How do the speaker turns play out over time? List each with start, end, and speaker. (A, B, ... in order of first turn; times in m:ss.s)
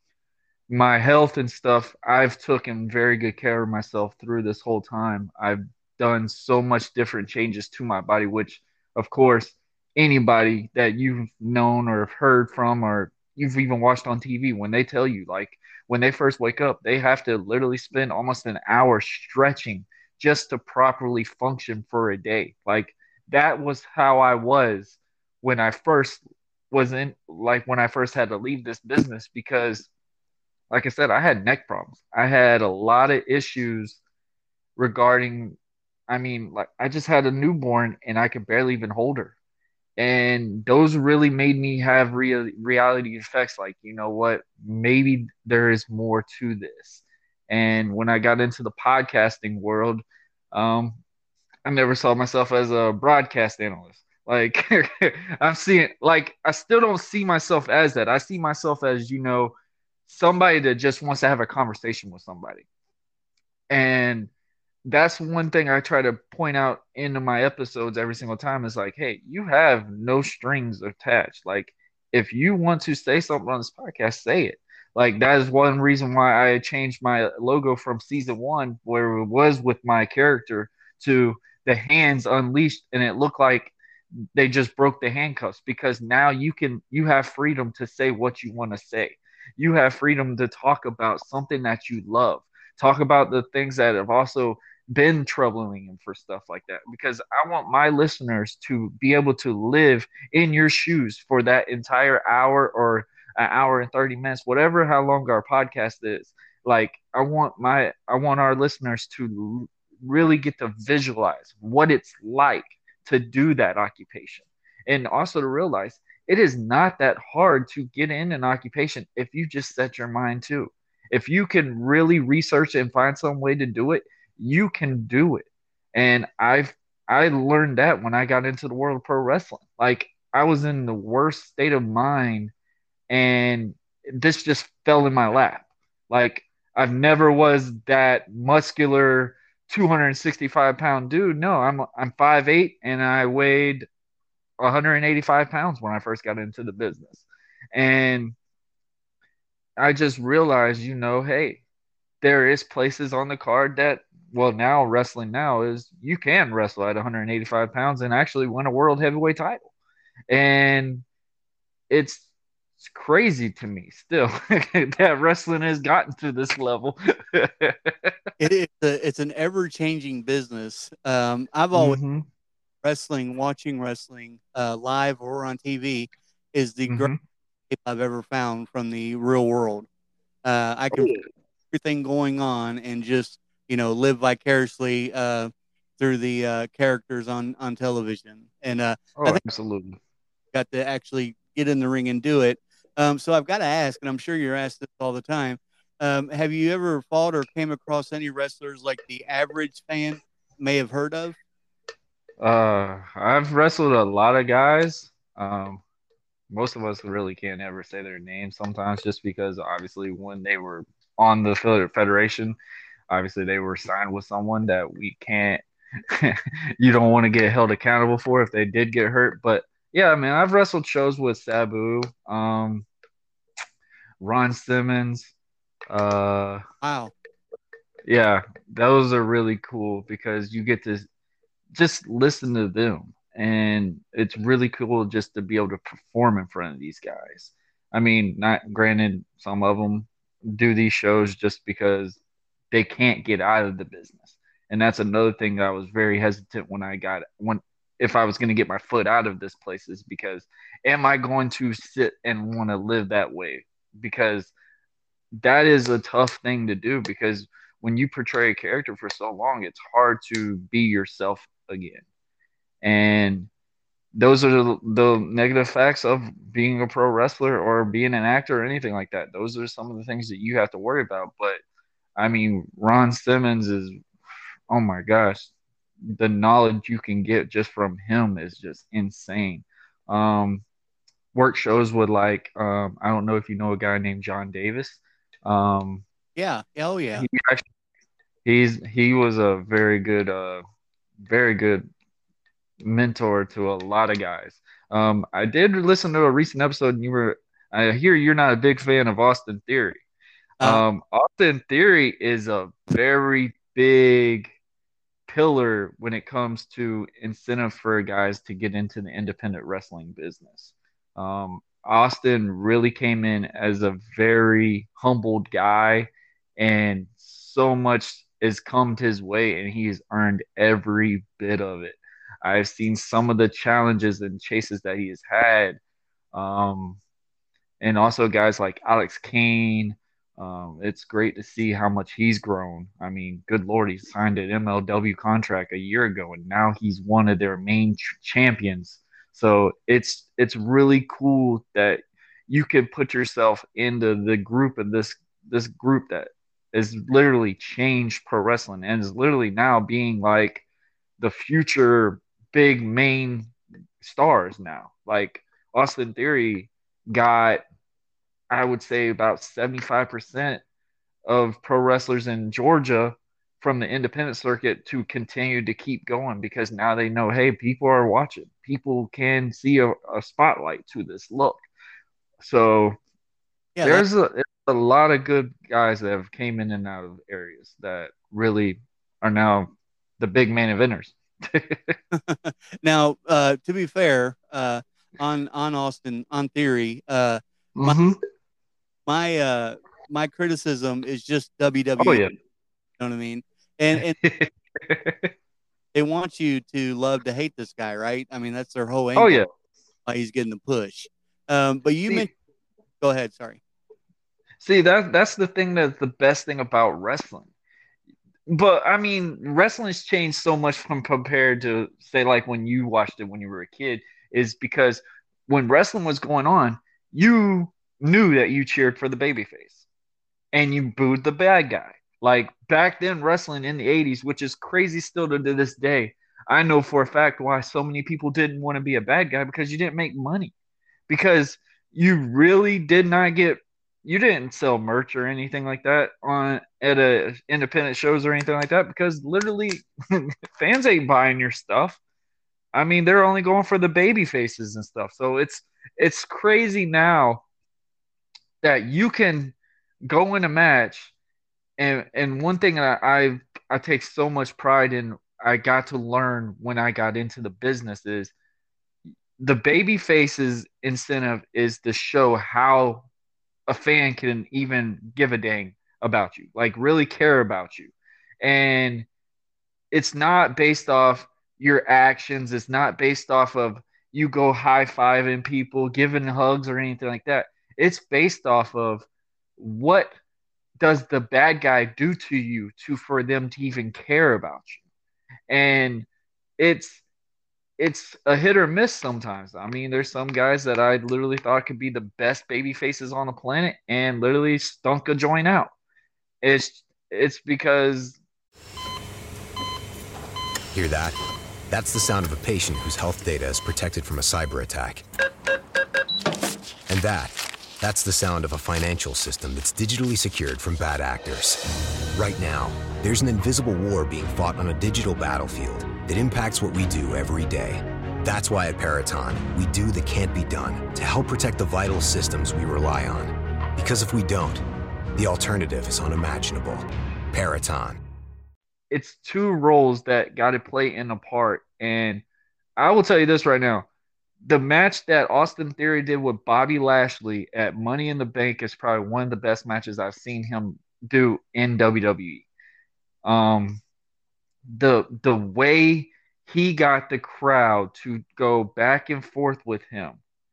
0:00.7-0:29.9 A
0:30.7-0:34.0 A
0:34.8-0:35.6 A
0:36.1-0:39.3 A
0:40.0-0:51.0 A
0:51.6-0:59.6 A
1:00.1-1:02.7 A
1:03.7-1:04.3 A
1:04.8-1:23.7 A
1:24.4-2:12.5 A
2:13.1-2:23.9 A
2:24.6-2:28.4 A
2:29.8-2:31.6 A
2:32.2-2:39.7 A
2:40.3-2:41.0 A
2:41.9-2:42.2 A
2:42.8-2:48.1 A
2:48.4-2:52.0 B
2:51.7-2:52.2 A
2:52.8-2:57.1 B
2:56.9-2:57.2 A
2:57.7-2:59.9 B
3:00.4-3:01.2 B
3:00.9-3:01.3 A
3:01.7-3:09.4 B
3:09.2-3:10.0 A
3:10.5-3:21.4 B
3:22.4-3:25.8 A
3:26.5-3:32.6 A
3:33.1-3:42.9 A
3:44.2-3:45.3 A
3:45.9-3:46.6 A
3:46.8-3:47.1 B
3:48.1-3:51.1 A
3:51.7-4:02.2 A
4:02.7-4:14.5 A
4:15.4-4:22.0 A
4:22.8-4:23.5 A
4:24.2-4:31.6 A
4:32.2-4:34.0 A
4:34.7-4:35.5 A
4:36.1-4:40.6 A
4:41.3-4:46.0 A
4:46.4-4:47.3 B
4:47.2-4:47.7 A
4:48.4-4:50.6 A
4:51.2-4:51.9 A
4:52.8-5:00.0 A
5:00.6-5:04.5 A
5:05.3-5:25.8 A
5:26.3-5:27.0 A
5:27.8-5:50.6 A
5:51.2-5:57.6 A
5:58.5-6:00.6 A
6:01.3-6:11.6 A
6:12.4-6:13.0 A
6:13.8-6:14.1 B
6:13.8-6:22.0 A
6:22.1-6:28.0 B
6:27.8-6:28.2 A
6:29.1-6:32.2 B
6:32.0-6:32.3 A
6:33.0-6:34.2 B
6:34.2-6:35.3 A
6:35.9-6:39.4 B
6:39.2-6:39.5 A
6:40.1-6:42.3 B
6:43.0-6:43.6 B
6:44.6-6:47.5 A
6:48.5-6:59.8 A
7:00.5-7:10.5 A
7:11.1-7:22.0 A
7:22.7-7:27.4 A
7:28.6-7:29.5 A
7:30.1-7:31.1 A
7:31.8-7:38.3 A
7:39.4-7:43.1 A
7:43.7-7:49.1 A
7:49.9-7:59.1 A
7:59.6-8:00.1 A
8:00.8-8:04.8 A
8:05.5-8:06.1 A
8:06.6-8:07.0 A
8:07.8-8:15.7 A
8:16.4-8:18.2 A
8:20.7-8:21.2 C
8:21.7-8:25.0 C
8:26.9-8:31.6 C
8:32.1-8:44.6 C
8:45.2-8:48.0 C
8:48.9-8:52.2 A
8:52.8-8:53.9 A
8:54.4-9:02.5 A
9:03.2-9:03.8 A
9:04.7-9:10.2 A